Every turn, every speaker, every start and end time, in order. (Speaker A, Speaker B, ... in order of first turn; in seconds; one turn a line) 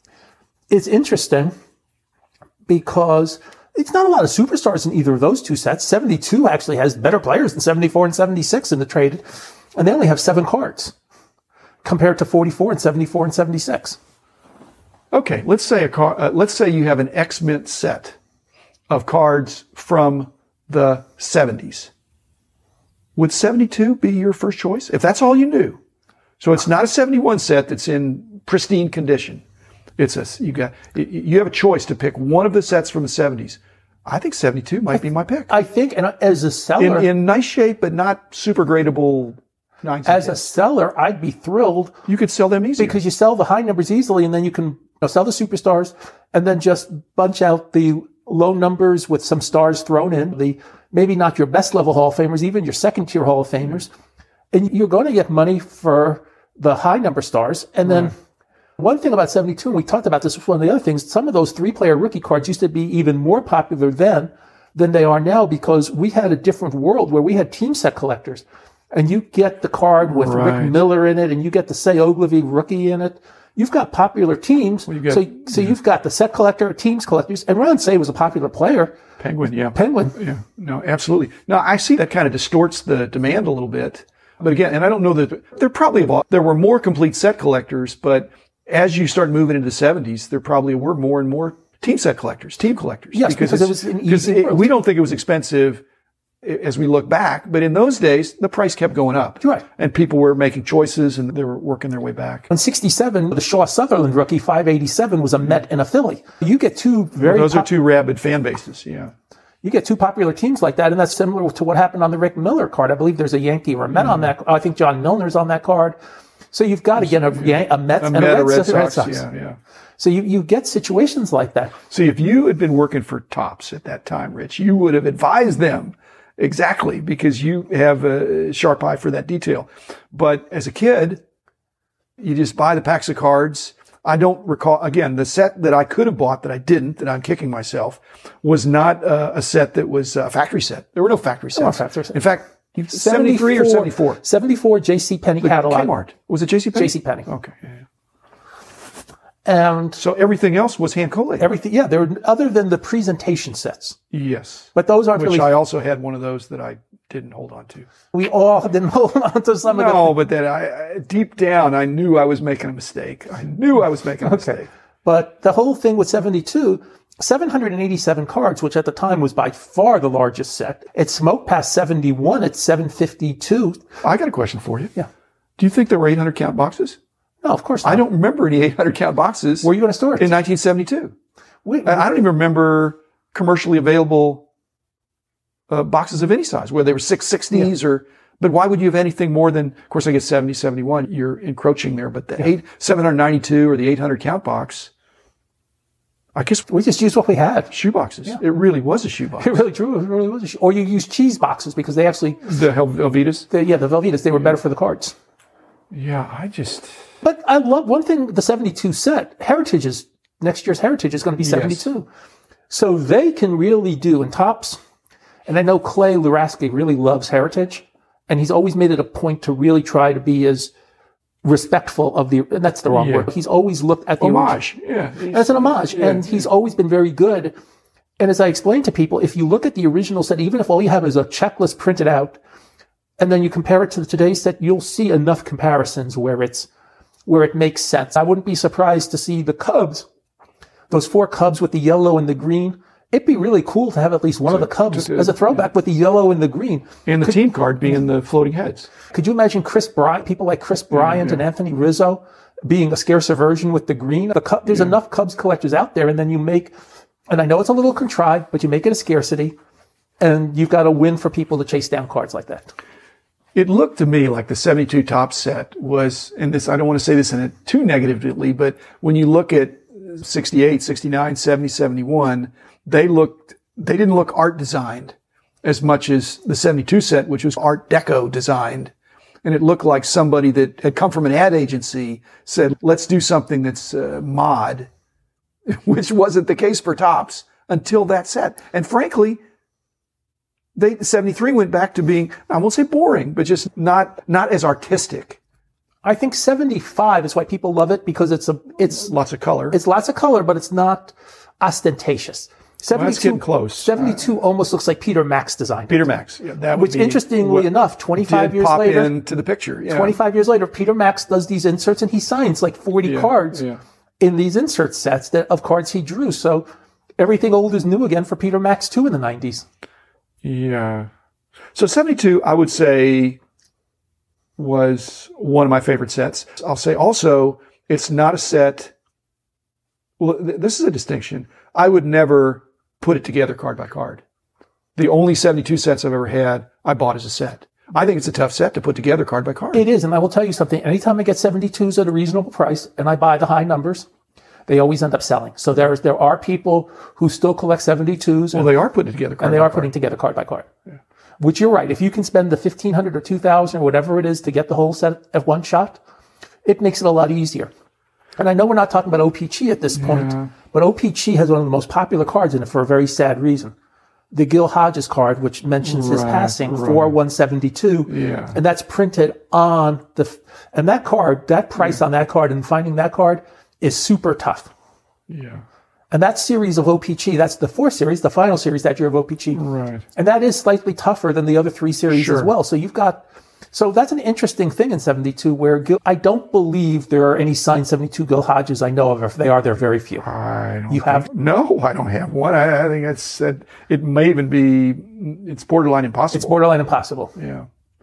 Speaker A: 0.7-1.5
Speaker A: 2.7-10.9
Speaker A: 11.8-14.0
Speaker B: 15.1-18.2
Speaker B: 18.9-21.9
Speaker B: 23.2-25.8
Speaker B: 26.4-29.4
Speaker B: 30.0-35.5
Speaker A: 35.5-37.1
Speaker B: 36.8-40.5
Speaker A: 40.0-41.9
Speaker B: 42.1-43.0
Speaker A: 42.8-53.9
Speaker A: 54.5-58.1
Speaker A: 58.8-79.0
Speaker B: 70.1-70.8
Speaker B: 74.9-75.7
Speaker B: 79.2-95.8
Speaker A: 79.7-80.1
Speaker A: 93.1-94.8
Speaker B: 96.4-102.5
Speaker A: 102.5-107.7
Speaker B: 107.2-109.1
Speaker A: 109.6-116.0
Speaker A: 116.5-119.2
Speaker B: 117.3-119.6
Speaker A: 120.0-121.7
Speaker B: 121.9-131.2
Speaker B: 132.2-144.2
Speaker A: 141.6-142.2
Speaker A: 142.9-145.9
Speaker B: 145.4-147.8
Speaker A: 146.7-147.3
Speaker A: 149.4-150.0
Speaker B: 150.0-151.5
Speaker A: 151.4-154.0
Speaker B: 154.1-157.9
Speaker A: 154.7-155.5
Speaker A: 158.1-160.2
Speaker B: 159.7-164.7
Speaker A: 164.2-173.8
Speaker B: 174.0-174.9
Speaker B: 175.6-177.0
Speaker A: 177.4-178.0
Speaker B: 177.8-181.1
Speaker A: 179.6-180.3
Speaker A: 181.7-182.1
Speaker B: 181.8-184.4
Speaker B: 185.7-194.9
Speaker B: 196.3-196.7
Speaker A: 196.7-197.7
Speaker B: 197.7-199.6
Speaker A: 199.4-202.4
Speaker B: 202.4-203.5
Speaker A: 203.5-205.2
Speaker B: 205.9-206.9
Speaker A: 207.2-212.1
Speaker B: 211.4-211.9
Speaker A: 212.7-214.8
Speaker A: 215.5-220.7
Speaker A: 221.4-224.6
Speaker B: 222.9-223.3
Speaker B: 224.2-226.4
Speaker A: 225.3-227.5
Speaker A: 228.2-232.4
Speaker A: 233.2-236.7
Speaker A: 237.3-240.1
Speaker A: 240.9-247.4
Speaker B: 244.5-245.6
Speaker B: 247.1-248.9
Speaker A: 249.1-256.7
Speaker B: 250.9-251.4
Speaker A: 257.3-259.6
Speaker A: 260.2-262.7
Speaker B: 263.6-278.9
Speaker B: 279.4-284.9
Speaker B: 285.7-289.4
Speaker B: 290.8-295.4
Speaker A: 296.0-299.1
Speaker B: 298.9-299.8
Speaker A: 299.7-306.1
Speaker B: 302.9-304.1
Speaker B: 305.9-310.2
Speaker A: 306.7-309.1
Speaker A: 309.9-313.7
Speaker B: 313.0-313.8
Speaker A: 314.2-316.7
Speaker A: 317.2-319.6
Speaker B: 320.4-321.1
Speaker B: 321.7-323.4
Speaker B: 324.6-328.9
Speaker B: 330.2-334.2
Speaker B: 335.0-339.8
Speaker A: 339.7-344.1
Speaker A: 344.7-348.7
Speaker B: 348.5-349.9
Speaker A: 349.4-350.7
Speaker A: 351.4-356.0
Speaker A: 356.6-357.7
Speaker A: 358.4-363.7
Speaker B: 359.9-360.5
Speaker A: 364.3-374.7
Speaker B: 365.8-367.1
Speaker B: 368.1-368.6
Speaker B: 375.3-375.6
Speaker A: 376.1-379.6
Speaker B: 379.6-380.1
Speaker A: 380.1-390.3
Speaker B: 382.1-382.5
Speaker B: 390.2-396.6
Speaker A: 390.9-391.3
Speaker A: 396.3-397.3
Speaker B: 397.4-397.7